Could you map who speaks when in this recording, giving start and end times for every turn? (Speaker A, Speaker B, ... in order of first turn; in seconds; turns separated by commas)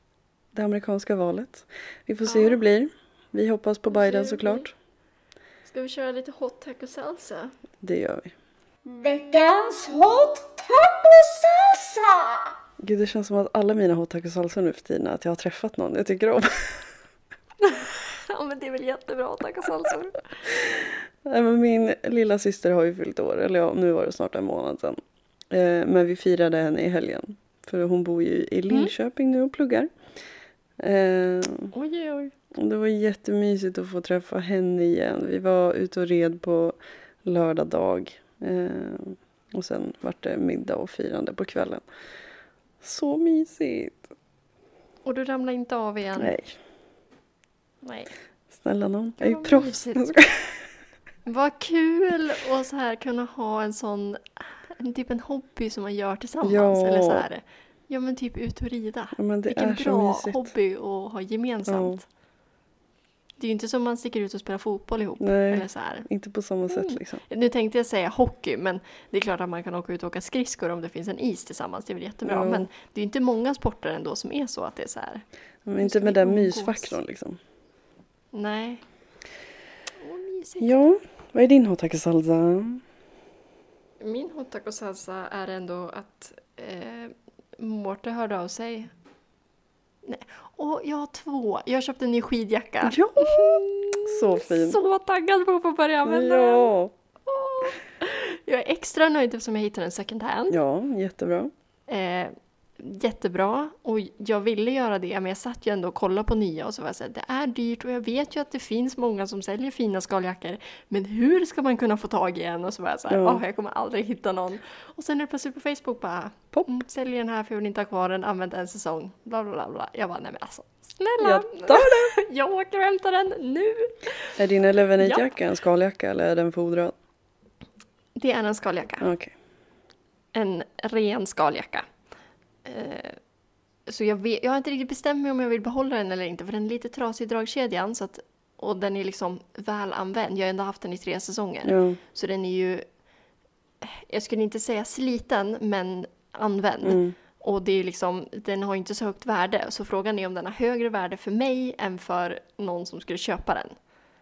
Speaker A: 0.5-4.7, Speaker B: 2.2-2.6, Speaker B: 3.9-4.7, Speaker B: 5.6-7.5, Speaker A: 7.8-8.3, Speaker C: 9.0-10.1, Speaker B: 9.1-11.3, Speaker C: 11.1-12.2, Speaker A: 12.8-16.9, Speaker B: 17.6-20.6, Speaker A: 20.7-25.0, Speaker A: 25.5-29.9, Speaker A: 30.8-31.7, Speaker B: 31.7-32.3, Speaker A: 32.5-41.9, Speaker A: 42.8-44.1, Speaker B: 45.0-46.3, Speaker A: 46.2-46.6, Speaker B: 47.8-48.1, Speaker A: 48.5-50.7, Speaker B: 49.2-50.0, Speaker B: 51.2-62.0, Speaker A: 56.4-57.2, Speaker A: 59.1-60.5, Speaker A: 61.6-62.0, Speaker B: 63.4-66.1, Speaker A: 65.2-67.2, Speaker B: 66.7-75.2, Speaker A: 72.2-72.7, Speaker A: 75.7-77.4, Speaker B: 75.8-77.0, Speaker B: 78.3-78.8, Speaker B: 80.0-80.7, Speaker A: 80.6-82.8, Speaker B: 84.0-88.9, Speaker B: 90.0-96.7, Speaker A: 92.8-94.8, Speaker A: 96.0-96.9, Speaker B: 97.2-100.6, Speaker A: 100.5-101.5, Speaker B: 101.9-124.3, Speaker A: 113.1-113.4, Speaker A: 121.2-122.1, Speaker A: 124.4-126.9, Speaker B: 125.0-125.3, Speaker B: 128.2-129.1, Speaker A: 129.0-129.3, Speaker B: 130.3-131.9, Speaker B: 132.6-133.2, Speaker B: 133.9-142.8, Speaker A: 141.6-142.0, Speaker B: 143.8-153.8, Speaker A: 146.8-147.1